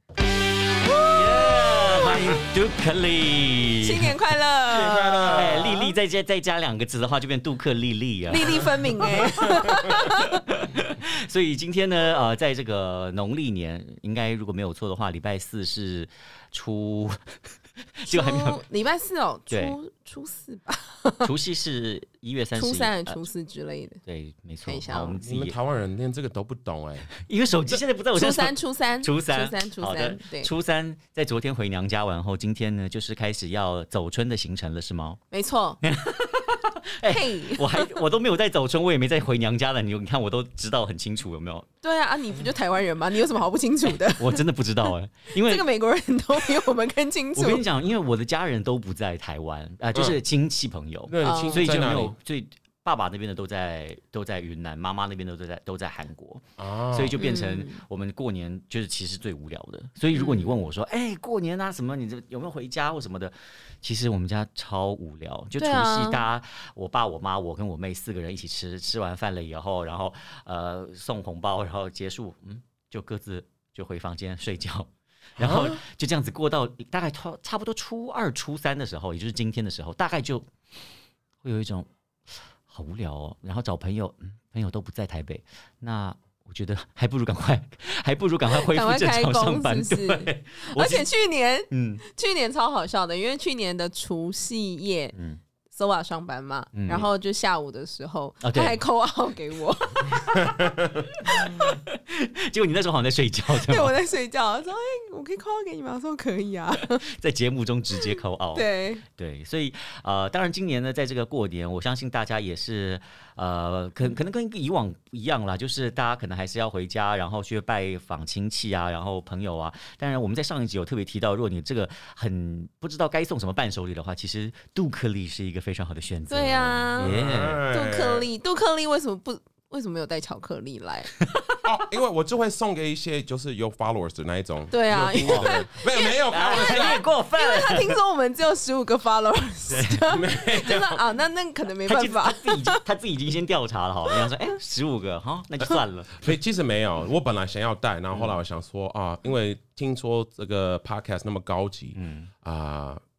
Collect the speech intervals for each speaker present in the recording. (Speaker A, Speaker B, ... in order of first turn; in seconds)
Speaker A: 0.9-2.1, 3.8-6.0, 8.3-10.4, 18.1-21.3, 22.6-24.0, 24.7-25.2, 28.1-30.5, 35.3-35.8, 37.1-37.9, 41.8-47.6, 51.2-51.7, 57.2-57.8, 60.1-60.5, 65.6-66.2, 88.5-95.2, 95.7-100.5, 101.3-101.6, 103.5-107.0, 108.5-109.0, 126.3-127.1, 127.7-131.1, 134.7-142.8, 144.1-144.5
Speaker B: 1.0-4.2, 4.7-17.4, 18.0-18.6, 19.5-19.8, 21.2-23.2, 24.1-25.6, 27.1-35.2, 35.8-41.7, 43.9-45.7, 47.4-80.5, 81.4-91.1, 91.7-92.0, 95.2-95.4, 96.7-97.1, 98.4-98.8, 101.2-104.0, 107.0-127.6, 131.2-131.7, 135.2-135.6, 136.3-138.0, 139.7-140.0, 141.9-146.3, 151.9-152.3
Speaker C: 4.7-5.8, 9.7-10.0, 25.2-27.1, 49.9-50.2, 51.1-52.2, 56.6-57.2, 75.4-75.8, 100.5-101.1, 127.0-128.3, 131.6-137.0, 140.1-141.0, 146.2-153.0